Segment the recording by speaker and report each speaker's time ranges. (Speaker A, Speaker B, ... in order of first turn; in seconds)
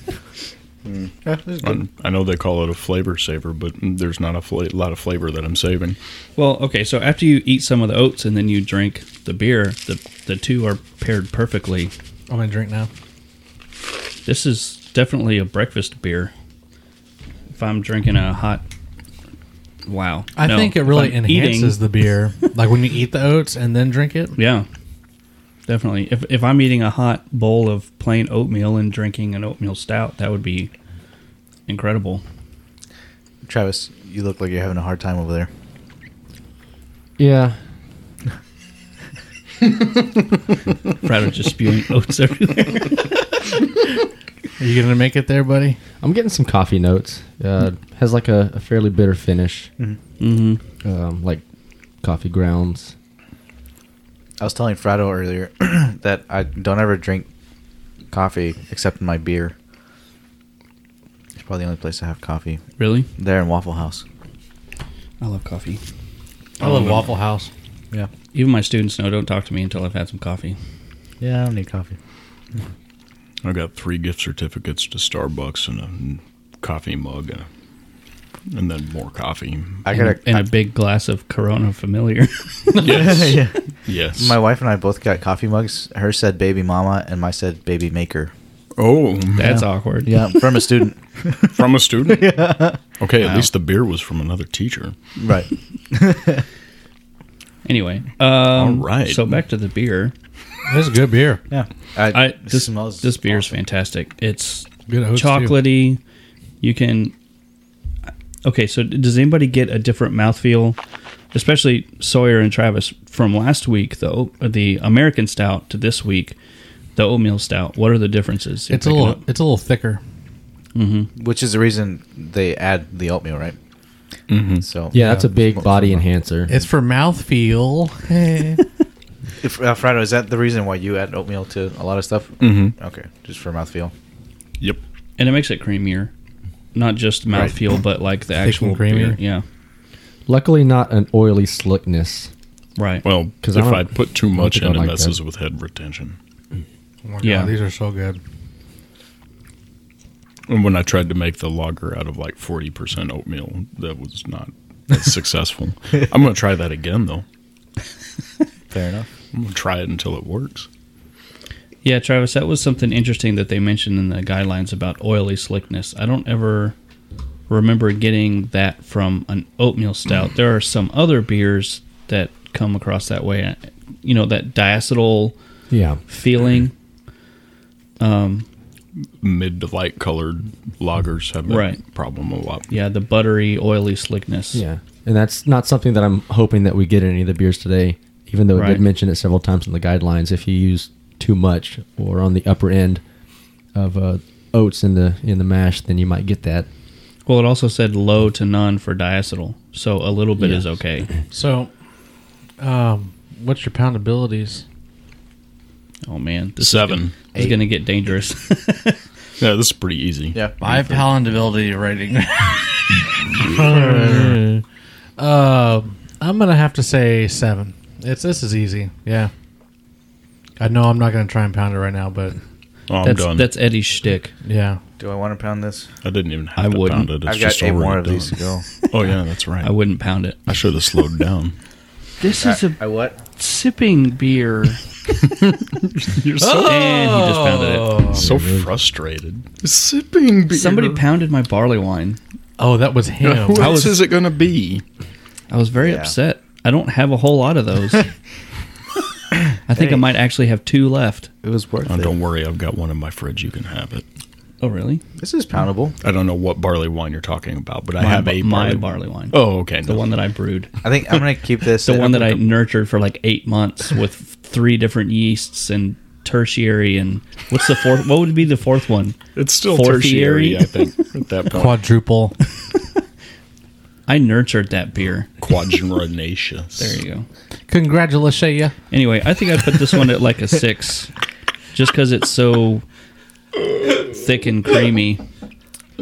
Speaker A: 0.9-1.8, 33.5-35.5, 54.4-57.3, 58.1-59.5, 61.4-62.6, 63.2-64.0, 71.2-72.0, 79.8-80.5, 82.8-83.6, 84.1-88.3, 89.4-92.8, 95.2-96.4, 101.5-103.5, 121.2-123.5, 124.6-126.0, 129.4-133.9, 158.7-159.1, 225.0-225.9, 227.2-228.6, 232.4-233.2, 245.8-246.1, 249.7-250.0, 251.4-252.2, 255.2-255.9, 260.8-262.3
Speaker B: 1.6-6.0, 73.4-77.5, 78.5-79.8, 82.8-84.4, 88.8-89.5, 91.5-92.4, 93.0-94.9, 98.5-99.2, 124.3-124.7, 132.4-132.7, 143.0-146.2, 150.5-157.2, 159.3-160.7, 179.2-182.7, 206.6-207.1, 209.4-211.1, 222.9-223.5, 226.0-228.3, 228.9-229.7, 230.5-231.5, 235.2-236.8, 238.1-241.0, 243.2-244.8, 251.8-254.0, 256.0-260.1, 269.4-271.8, 275.4-277.0
Speaker C: 6.4-11.9, 14.2-16.3, 17.5-18.6, 19.9-21.8, 24.4-24.6, 25.7-30.7, 31.7-32.2, 41.0-43.2, 50.2-50.6, 62.8-63.1, 65.2-65.8, 68.3-70.6, 79.9-82.8, 89.4-90.4, 93.2-93.5, 97.6-100.1, 102.1-106.0, 106.6-107.1, 108.4-110.8, 111.3-116.3, 117.0-119.2, 120.7-121.1, 135.2-136.1, 136.7-139.4, 142.8-143.0, 147.2-147.5, 161.8-166.7, 167.5-175.3, 176.1-176.7, 178.0-178.4, 181.4-181.8, 182.7-184.6, 188.5-188.8, 197.2-201.1, 206.1-209.0, 223.0-224.3, 226.6-227.1, 229.6-230.4, 232.2-234.8, 236.5-238.1, 240.5-242.2, 243.6-244.0, 245.5-248.1, 249.7-251.3, 254.6-255.0, 258.0-260.7, 261.8-270.8, 274.1-275.3, 276.8-277.3, 278.9-281.1, 281.7-282.8, 283.8-285.2
Speaker D: 12.3-12.9, 20.4-24.4, 44.6-45.8, 66.6-67.5, 100.7-101.4, 104.9-105.6, 118.7-120.0, 124.9-125.3, 126.5-128.6, 138.4-139.2, 147.1-148.2, 201.3-201.7, 202.6-204.6, 210.6-214.6, 215.2-219.3, 220.6-222.4, 224.4-224.8, 236.4-238.2, 242.6-243.9, 271.5-272.4, 277.7-278.7
Speaker E: 37.2-37.6, 46.0-49.7, 50.8-51.4, 52.0-52.9, 124.9-126.5, 140.3-142.3, 143.4-145.2, 175.7-176.0, 184.5-193.0, 193.7-196.7, 238.2-238.7